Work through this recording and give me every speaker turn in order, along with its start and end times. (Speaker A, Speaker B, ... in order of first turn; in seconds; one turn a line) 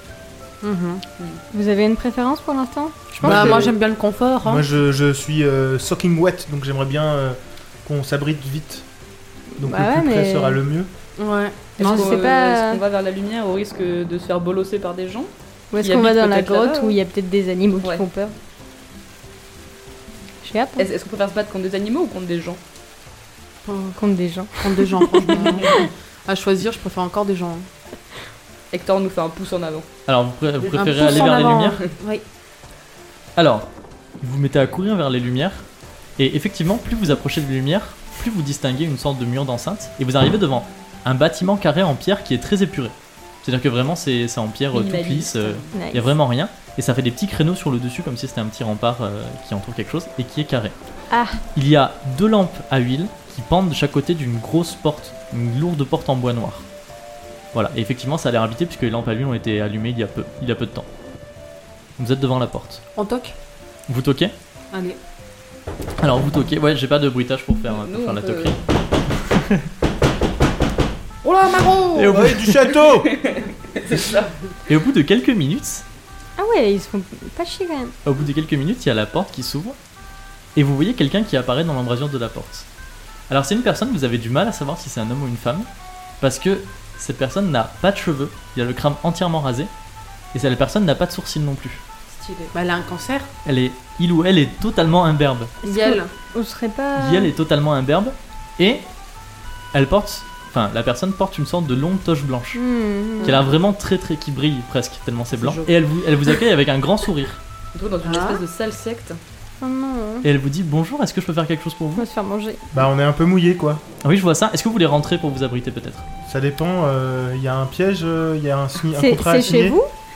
Speaker A: 0.6-1.0
Speaker B: 1.5-3.7
Speaker C: 3.2-3.8
Speaker A: 3.2-4.6
Speaker C: 4.4-8.9
Speaker B: 9.6-10.6
Speaker C: 9.6-10.9
Speaker A: 11.2-12.2
Speaker B: 11.8-12.8
Speaker D: 11.8-17.0
Speaker B: 15.7-18.3
Speaker B: 20.4-20.9
Speaker D: 20.8-22.6
Speaker B: 23.7-25.9
Speaker A: 24.6-27.7
Speaker D: 25.4-25.7
Speaker D: 28.7-29.9
Speaker E: 30.1-31.8
Speaker A: 30.7-32.2
Speaker D: 31.0-31.3
Speaker E: 33.4-33.7
Speaker E: 34.2-35.7
Speaker E: 36.2-50.8
Speaker D: 44.7-45.7
Speaker B: 45.7-46.1
Speaker B: 51.1-51.4
Speaker E: 51.5-56.7
Speaker E: 57.5-60.9
Speaker E: 62.0-62.8
Speaker A: 63.0-63.3
Speaker E: 63.9-64.3
Speaker A: 64.7-65.0
Speaker E: 66.0-68.6
Speaker D: 67.7-68.5
Speaker E: 69.2-69.7
Speaker A: 71.2-72.0
Speaker D: 71.5-72.0
Speaker E: 71.9-72.6
Speaker C: 72.1-73.2
Speaker D: 72.8-74.3
Speaker E: 74.7-75.8
Speaker B: 76.4-77.9
Speaker E: 78.0-79.8
Speaker E: 80.5-82.7
Speaker E: 83.3-85.7
Speaker E: 86.2-89.7
Speaker E: 90.3-91.8
Speaker D: 92.1-92.5
Speaker A: 92.5-93.3
Speaker E: 93.4-95.5
Speaker B: 95.6-97.3
Speaker A: 95.6-96.1
Speaker E: 97.0-98.9
Speaker E: 99.7-102.6
Speaker B: 102.5-103.4
Speaker E: 103.2-107.4
Speaker A: 103.2-103.5
Speaker D: 105.4-105.7
Speaker D: 107.7-109.2
Speaker A: 108.0-108.4
Speaker B: 109.6-110.3
Speaker E: 110.2-112.0
Speaker B: 112.0-112.6
Speaker C: 112.7-113.8
Speaker E: 114.0-116.0
Speaker C: 116.3-119.8
Speaker B: 118.9-119.9